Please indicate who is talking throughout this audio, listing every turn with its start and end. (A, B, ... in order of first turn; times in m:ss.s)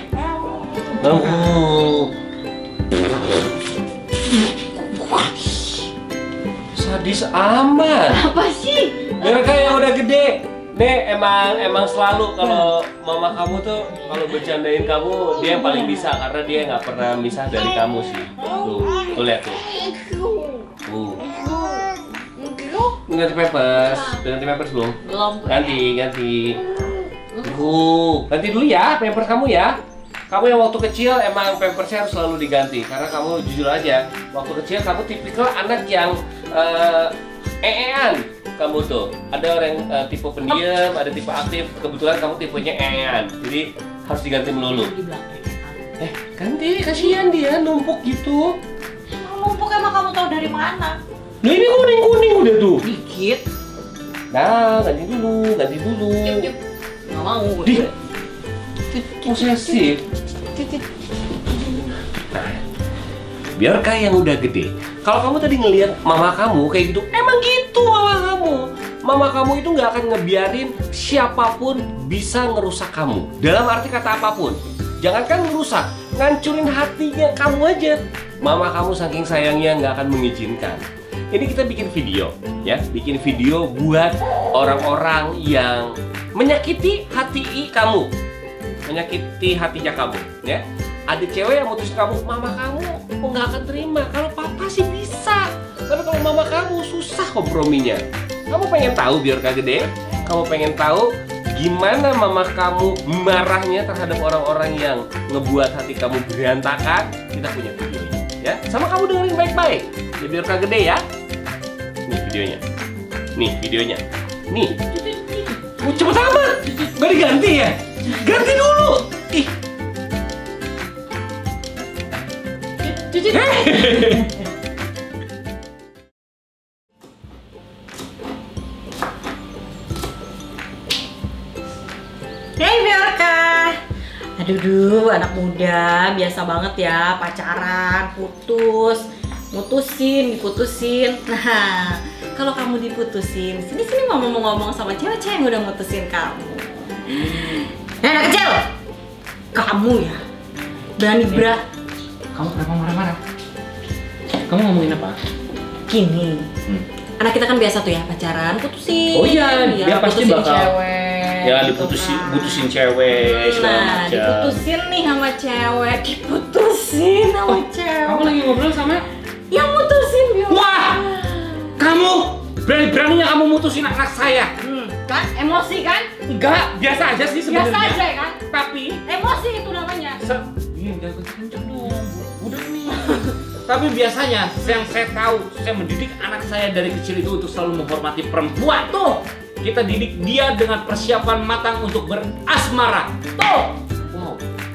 0:01.0-0:02.1 A
0:04.9-0:05.8 B
0:06.7-0:08.2 A
0:08.0-0:09.7 B
0:09.2-0:19.6 A
0:12.4-0:12.6 B
0:15.3-0:16.1 B
0:18.4-0:20.6 B
0:20.8-0:21.2 A
0:21.3-0:21.8 B
0:22.4-0:23.0 B
0:23.1-0:26.6 A
0:23.7-0:24.2 B
0:25.0-0:25.8 B
0:27.4-0:29.8 A
0:30.3-0:44.9 A
0:44.6-0:46.0 B
0:46.0-0:48.6 A
0:49.1-0:51.0 B
0:51.4-0:52.8 C
0:52.8-0:53.5 B
0:54.3-0:56.5 A
0:56.2-0:56.5 B
0:57.1-0:57.9 B
0:58.9-0:59.9 B
0:59.2-1:00.0 A
1:00.5-1:00.8 B
1:02.3-1:02.6 A
1:03.6-1:28.1 A
1:28.8-1:51.0 A
1:52.1-1:52.6 A
1:53.4-1:55.1 A
1:55.8-1:59.5 A
2:02.8-2:04.3 B
2:03.3-2:04.2 C
2:12.6-2:13.8 B
2:14.4-2:28.7 B
2:27.2-2:27.6 C
2:29.5-2:30.2 B
2:31.0-2:31.6 B
2:32.3-2:33.2 C
2:34.5-2:35.2 C
2:35.9-2:36.5 B
2:37.2-2:48.3 B
2:39.1-2:40.7 C
2:41.4-2:44.6 C
2:47.5-2:49.0 C
2:49.5-2:51.8 B
2:50.5-2:51.0 C
2:51.8-2:54.5 C
2:54.6-2:56.1 B
2:56.2-2:59.0 C
2:57.5-2:58.4 B
2:59.0-3:00.2 B
3:00.2-3:09.0 C
3:08.8-3:09.2 B
3:09.6-3:13.1 C
3:13.4-3:13.7 B
3:14.1-3:14.4 C